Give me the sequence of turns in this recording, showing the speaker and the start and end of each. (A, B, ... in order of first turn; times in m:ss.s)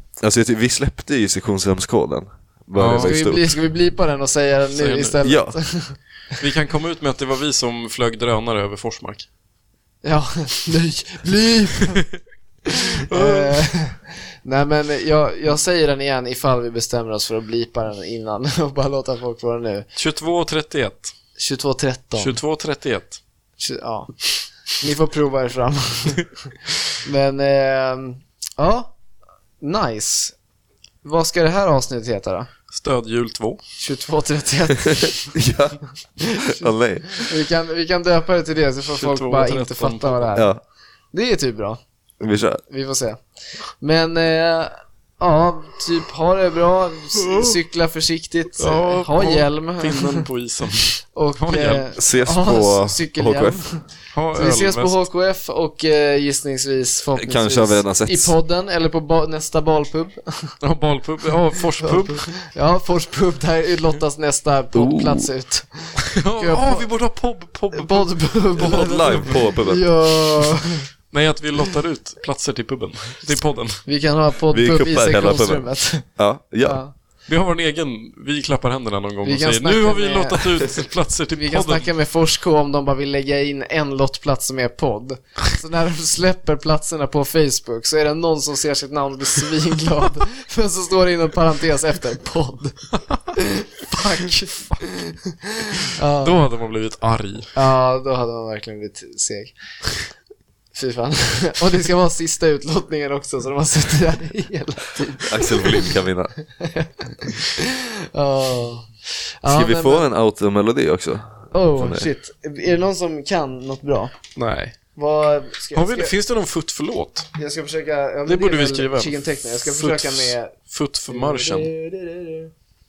0:00.2-0:03.5 A
0:02.8-0:03.2 B
0:03.0-0:06.0 C
0:04.8-0:05.2 B
0:05.2-0:05.6 A
0:06.4-0:09.3 B
0:10.0-0:12.0 C
0:12.7-0:19.9 C
0:13.1-0:13.6 B
0:20.0-0:21.1 B
0:21.4-0:22.4 C
0:22.2-0:23.2 B
0:23.6-0:26.3 C
0:27.0-0:28.9 C
0:29.6-0:30.4 C
0:31.0-0:32.5 C
0:32.7-0:33.6 B
0:33.8-0:35.3 C
0:35.3-0:37.3 A
0:36.2-0:40.5 C
0:38.9-0:40.4 B
0:40.3-0:40.6 A
0:41.1-0:41.8 C
0:42.2-0:42.6 A
0:42.7-0:43.2 C
0:43.8-0:50.2 C
0:47.2-0:47.5 B
0:48.6-0:51.9 B
0:51.1-1:00.5 C
0:52.0-0:53.6 A
0:54.1-0:55.0 B
0:57.2-0:58.3 A
1:00.6-1:02.3 B
1:01.9-1:06.9 C
1:04.7-1:05.3 A
1:06.0-1:09.4 B
1:07.7-1:10.9 C
1:08.6-1:09.8 A
1:11.1-1:13.8 B
1:13.8-1:16.1 C
1:14.5-1:16.8 A
1:16.6-1:16.9 C
1:17.3-1:21.9 B
1:19.2-1:36.4 C
1:34.0-1:34.7 B
1:36.2-1:37.5 B
1:37.5-1:39.5 C
1:40.7-1:45.9 C
1:45.2-1:46.3 A
1:46.6-1:50.1 C
1:49.5-1:52.1 A
1:51.5-1:54.1 C
1:54.4-1:54.8 B
1:55.0-1:56.1 C
1:55.7-1:57.3 B
1:57.3-2:00.5 C
1:58.3-2:01.7 B
2:01.1-2:02.5 C